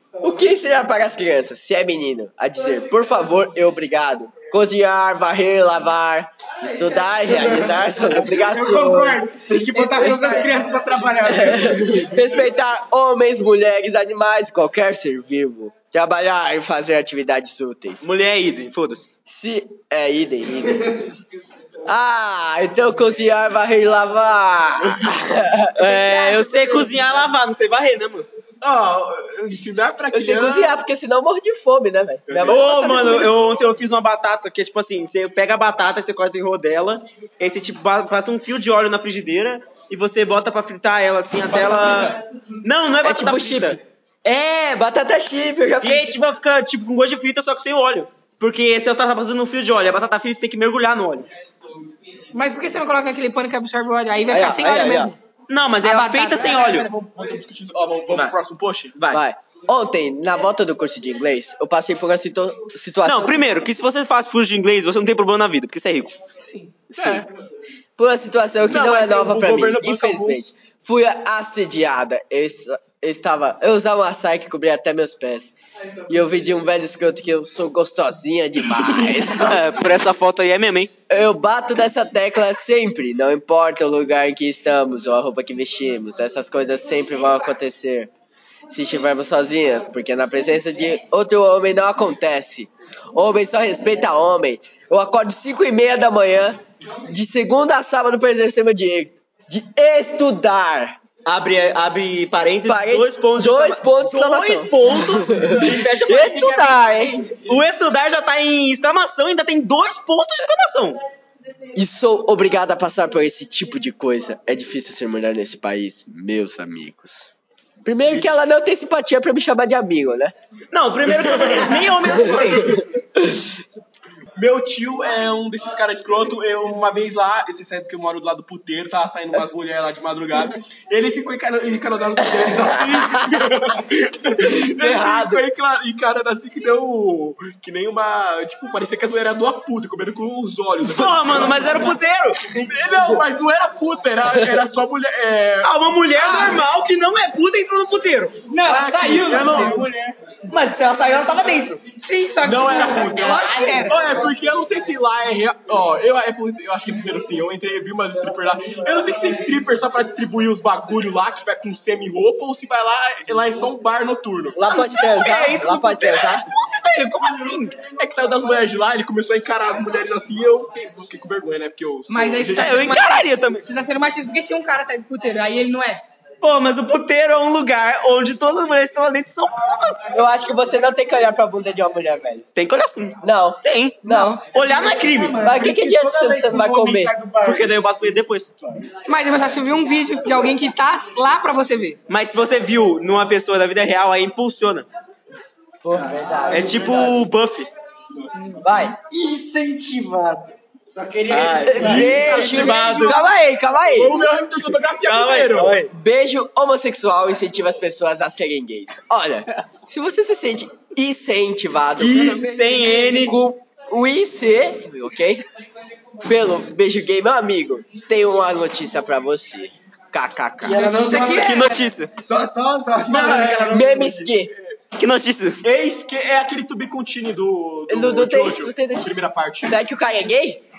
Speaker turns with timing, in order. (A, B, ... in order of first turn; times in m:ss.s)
0:00.2-0:09.2 A
0:07.3-0:12.1 B
0:09.7-0:10.6 C
0:10.0-0:10.3 A
0:11.2-0:18.0 A
0:18.0-0:19.1 D
0:19.2-0:21.1 A
0:21.8-0:25.8 A
0:25.7-0:28.3 D
0:25.8-0:27.1 C
0:28.6-0:30.8 E
0:30.1-0:33.3 A
0:32.3-0:33.0 E
0:32.5-0:43.8 D
0:41.5-0:42.2 E
0:43.0-0:46.2 A
0:45.8-0:51.2 D
0:52.3-0:55.2 C
0:54.3-0:55.1 A
0:55.5-0:56.9 D
0:55.8-0:56.9 C
0:56.4-0:58.9 E
0:58.1-0:58.4 D
0:58.9-0:59.2 D
0:59.1-1:03.4 A
1:03.0-1:06.2 D
1:06.4-1:06.7 C
1:06.9-1:07.3 A
1:06.9-1:07.3 E
1:08.0-1:15.5 A
1:08.6-1:10.5 E
1:16.1-1:19.6 A
1:19.3-1:20.9 D
1:21.1-1:28.1 A
1:28.7-1:41.0 A
1:41.2-1:51.0 D
1:42.6-1:47.2 A
1:51.7-1:57.3 A
1:57.8-2:00.3 A
2:00.7-2:02.8 D
2:01.2-2:02.4 E
2:02.0-2:03.4 A
2:04.4-2:22.0 E
2:12.3-2:13.5 A
2:14.4-2:15.4 A
2:20.8-2:22.4 D
2:22.5-2:26.5 E
2:25.6-2:28.4 D
2:28.5-2:29.8 C
2:28.6-2:29.9 E
2:29.3-2:30.2 B
2:30.5-2:31.8 D
2:32.0-2:34.2 C
2:32.4-2:44.6 E
2:33.5-2:33.9 B
2:44.5-2:46.4 A
2:44.7-2:47.8 D
2:48.0-2:53.0 E
2:52.1-2:56.0 C
2:52.5-2:53.6 D
2:56.4-3:00.0 D
3:00.1-3:02.4 A
3:02.6-3:05.4 D
3:03.2-3:04.4 A
3:04.0-3:04.4 C
3:04.6-3:07.8 B
3:05.4-3:07.1 A
3:07.4-3:08.5 D
3:09.0-3:12.0 C
3:12.1-3:14.9 D
3:15.8-3:17.1 A
3:15.9-3:16.6 B
3:16.5-3:17.2 E
3:16.5-3:17.7 D
3:18.3-3:18.6 C
3:18.6-3:19.0 A
3:19.0-3:23.0 B
3:21.3-3:23.2 D
3:21.6-3:24.3 A
3:21.9-3:22.7 E
3:22.6-3:23.1 C
3:23.9-3:25.8 E
3:25.0-3:25.9 D
3:25.9-3:32.4 A
3:32.0-3:33.4 D
3:32.5-3:32.9 C
3:33.0-3:35.4 A
3:36.2-3:40.9 A
3:40.6-3:44.3 B
3:40.6-3:41.8 C
3:41.0-3:42.1 D
3:43.0-3:43.8 E
3:43.7-3:44.5 A
3:44.5-3:44.8 E
3:45.0-3:45.6 D
3:45.6-3:49.8 E
3:47.9-3:50.6 A